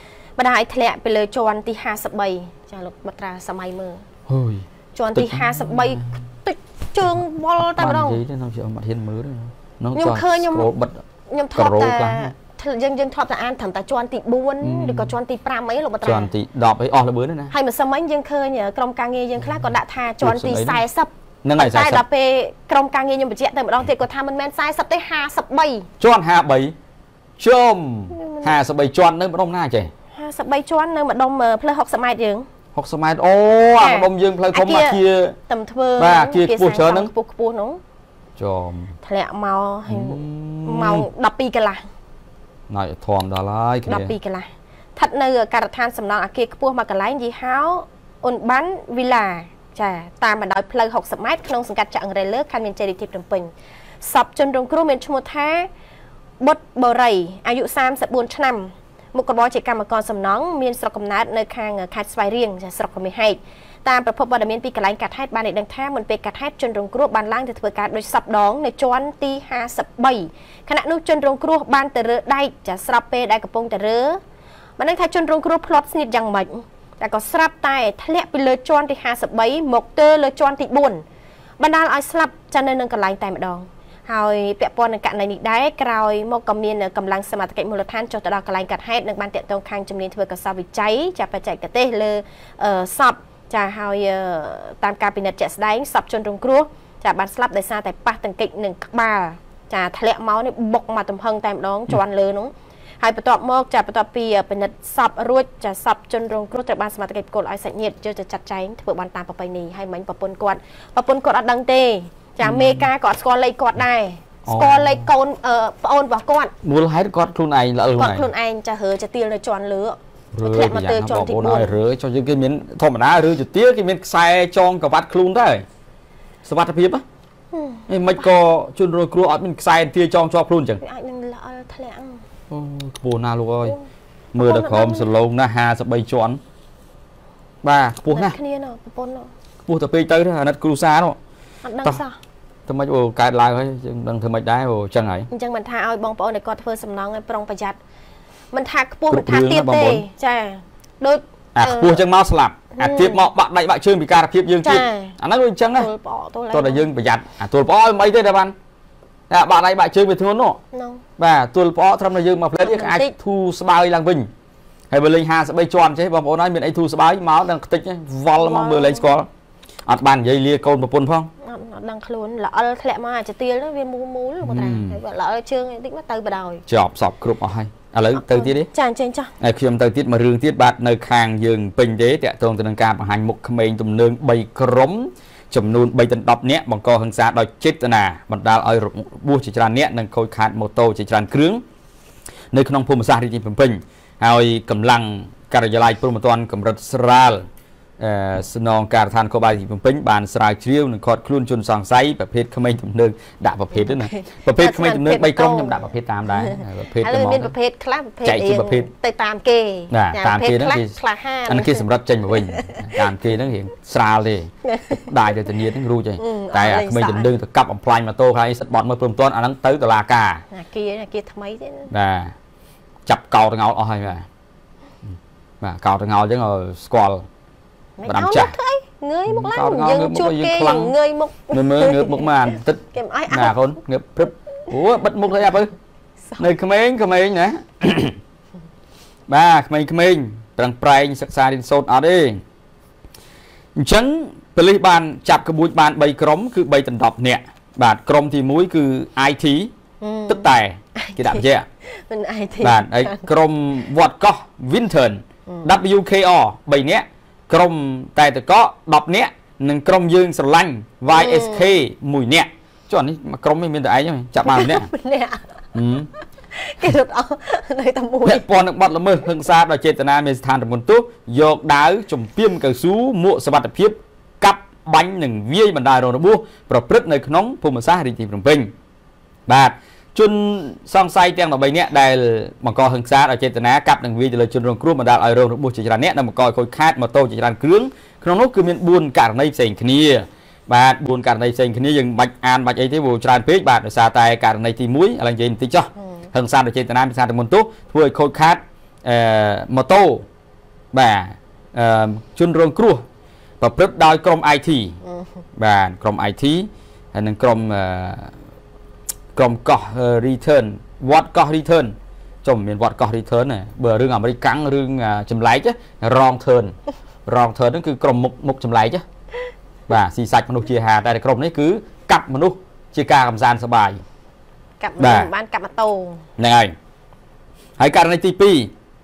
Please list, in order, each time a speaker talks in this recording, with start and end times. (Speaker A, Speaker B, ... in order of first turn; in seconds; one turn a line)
Speaker A: 0.4-4.0
Speaker B: 4.3-6.2
Speaker A: 4.9-8.2
Speaker B: 7.1-11.0
Speaker A: 9.9-10.7
Speaker A: 11.3-16.3
Speaker B: 11.5-12.3
Speaker B: 14.6-15.1
Speaker B: 16.0-17.5
Speaker A: 17.5-25.9
Speaker B: 20.2-20.8
Speaker B: 21.4-22.0
Speaker B: 26.0-26.7
Speaker B: 27.4-29.9
Speaker A: 28.1-28.5
Speaker A: 30.1-32.5
Speaker B: 32.7-35.4
Speaker A: 33.8-37.8
Speaker B: 36.0-37.1
Speaker B: 38.4-38.9
Speaker A: 39.0-41.8
Speaker B: 39.9-41.1
Speaker B: 42.7-44.1
Speaker A: 43.9-55.7
Speaker A: 56.4-74.2
Speaker A: 74.8-81.0
Speaker A: 81.6-116.5
Speaker B: 112.4-112.9
Speaker B: 114.5-115.1
Speaker B: 116.6-118.3
Speaker A: 118.0-121.8
Speaker B: 120.3-125.6
Speaker B: 126.4-127.0
Speaker A: 127.5-128.2
Speaker B: 127.9-130.8
Speaker A: 130.8-132.2
Speaker B: 132.5-133.8
Speaker B: 134.3-136.4
Speaker A: 134.4-135.1
Speaker B: 137.6-138.4
Speaker A: 138.1-139.3
Speaker B: 139.7-141.2
Speaker A: 141.6-142.2
Speaker B: 142.7-145.3
Speaker A: 145.3-147.8
Speaker A: 148.5-152.0
Speaker B: 149.1-150.0
Speaker B: 151.5-155.9
Speaker A: 152.7-153.3
Speaker A: 154.6-155.2
Speaker A: 155.8-156.9
Speaker B: 156.5-158.5
Speaker B: 159.3-160.6
Speaker A: 160.7-161.0
Speaker B: 161.2-164.3
Speaker A: 162.6-163.1
Speaker B: 164.9-169.3
Speaker A: 168.4-169.1
Speaker B: 169.8-171.3
Speaker A: 171.4-176.6
Speaker B: 174.4-175.0
Speaker B: 176.7-178.7
Speaker A: 178.1-179.3
Speaker B: 179.4-191.6
Speaker B: 192.5-197.4
Speaker B: 198.0-207.5
Speaker A: 203.7-212.9
Speaker B: 208.2-208.9
Speaker B: 209.9-210.9
Speaker B: 211.5-220.4
Speaker A: 214.6-215.0
Speaker A: 216.2-217.3
Speaker A: 220.5-221.9
Speaker B: 221.9-222.3
Speaker B: 223.1-224.2
Speaker B: 225.6-227.2
Speaker A: 228.0-233.7
Speaker B: 228.1-228.5
Speaker B: 229.3-230.9
Speaker B: 231.5-235.7
Speaker B: 236.4-238.2
Speaker B: 239.3-242.4
Speaker B: 243.8-249.7
Speaker A: 250.0-253.3
Speaker B: 250.3-251.6
Speaker B: 252.6-264.9
Speaker A: 255.5-255.7
Speaker A: 261.1-261.8
Speaker A: 264.4-265.6
Speaker B: 265.7-266.1
Speaker A: 266.5-268.6
Speaker B: 268.2-278.7
Speaker B: 279.5-300.2
Speaker A: 296.0-296.3
Speaker B: 300.9-303.0
Speaker B: 303.6-305.0
Speaker A: 305.0-305.3
Speaker B: 305.6-308.3
Speaker B: 309.3-316.7
Speaker B: 317.2-319.0
Speaker B: 319.9-324.0
Speaker A: 324.8-326.2
Speaker B: 325.0-325.3
Speaker B: 326.4-326.7
Speaker B: 327.8-328.7